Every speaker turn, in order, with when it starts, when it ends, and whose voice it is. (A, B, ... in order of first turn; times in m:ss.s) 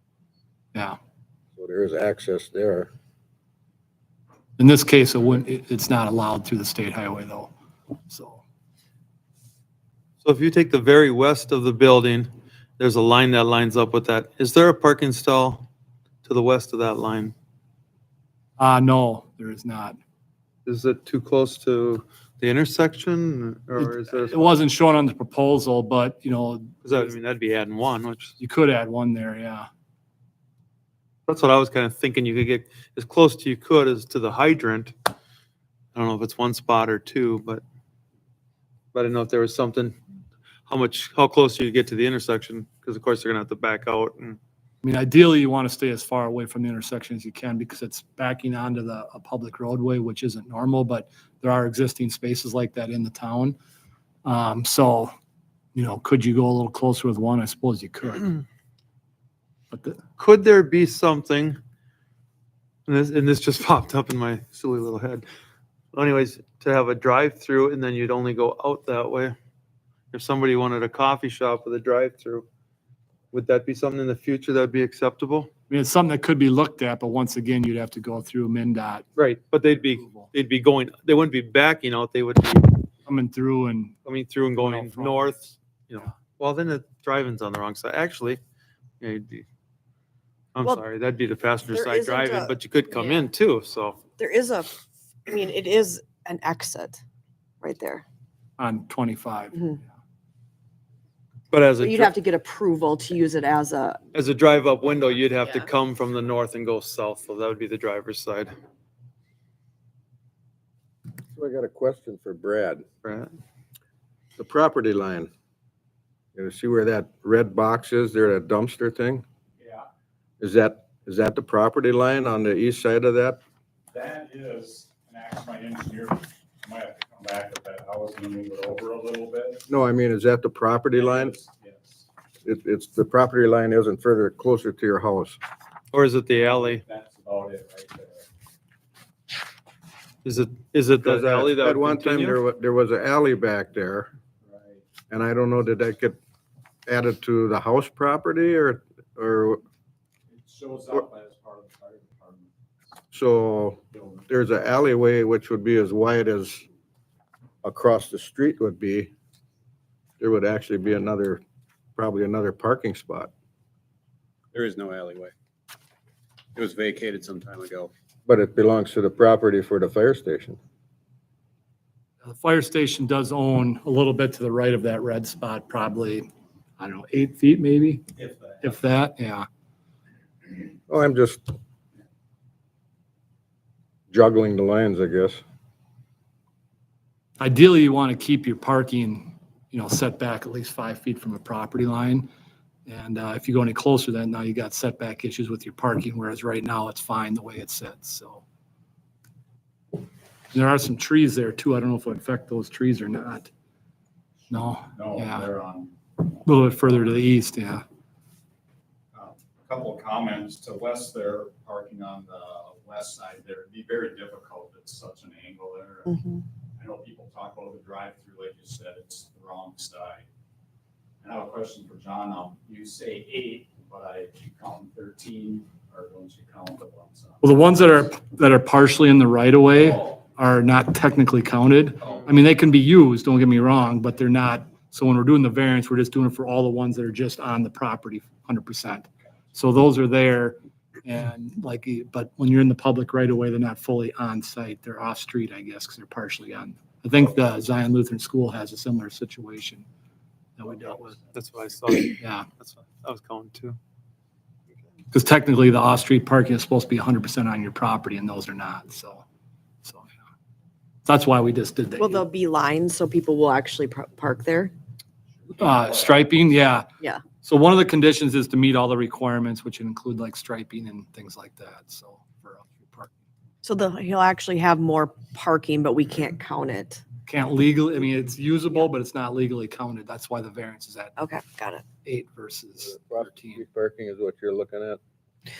0:01.6-0:02.9 A
0:04.6-0:07.5 B
0:08.1-0:08.4 B
0:10.2-0:15.7 C
0:16.2-0:17.3 C
0:18.6-0:20.0 B
0:20.6-0:24.5 C
0:23.8-0:27.1 B
0:26.8-0:28.3 C
0:28.4-0:29.7 B
0:31.3-0:34.9 C
0:35.9-0:37.6 C
0:38.9-0:40.0 C
0:40.7-0:44.4 C
0:44.8-0:53.6 B
0:54.2-0:55.1 B
0:55.7-0:58.4 B
0:59.7-1:00.0 B
1:00.2-1:01.6 C
1:02.9-1:05.2 C
1:05.9-1:09.4 C
1:10.1-1:12.4 C
1:13.3-1:15.5 C
1:15.7-1:19.1 B
1:19.2-1:22.8 C
1:19.7-1:20.3 B
1:23.0-1:24.0 B
1:24.0-1:28.4 C
1:24.6-1:25.4 B
1:29.0-1:29.4 C
1:30.5-1:34.0 C
1:31.7-1:33.3 D
1:34.2-1:37.0 D
1:37.6-1:38.0 D
1:38.6-1:39.8 B
1:41.5-1:42.1 C
1:41.8-1:44.0 D
1:44.1-1:48.5 C
1:51.3-1:52.8 A
1:53.0-1:53.3 C
1:54.4-1:55.3 A
1:56.3-1:59.2 A
1:59.6-1:59.8 E
2:00.4-2:03.4 A
2:03.9-2:09.6 E
2:09.7-2:11.3 A
2:10.9-2:12.0 E
2:12.4-2:15.4 A
2:15.9-2:16.8 C
2:16.4-2:18.2 E
2:20.2-2:22.4 C
2:21.0-2:24.1 A
2:24.4-2:24.8 E
2:25.1-2:26.2 A
2:26.9-2:29.6 A
2:30.3-2:32.5 E
2:33.1-2:36.6 A
2:33.9-2:34.2 E
2:37.6-2:39.1 A
2:40.2-2:41.4 A
2:42.0-2:43.3 A
2:44.5-2:45.3 F
2:46.6-2:47.9 F
2:48.3-2:50.6 A
2:52.2-2:56.3 B
2:56.8-2:58.1 B
2:58.6-2:59.5 B
3:00.9-3:01.5 A
3:04.1-3:05.4 A
3:07.4-3:12.3 B
3:12.8-3:18.4 B
3:20.5-3:23.5 B
3:24.5-3:25.5 B
3:24.6-3:25.9 E
3:26.4-3:27.8 B
3:29.1-3:36.1 E
3:36.1-3:36.4 D
3:36.8-3:40.2 E
3:41.2-3:47.8 E
3:47.4-4:09.8 B
4:10.6-4:11.1 B
4:11.3-4:13.8 C
4:12.2-4:12.5 B
4:15.1-4:19.2 B
4:19.8-4:20.1 B
4:21.0-4:22.2 B
4:22.0-4:24.7 D
4:25.6-4:26.0 E
4:25.6-4:26.9 B
4:27.4-4:33.2 B
4:33.6-4:37.0 D
4:37.2-4:41.2 B
4:41.2-4:41.8 D
4:42.0-4:43.6 B
4:42.8-4:45.0 A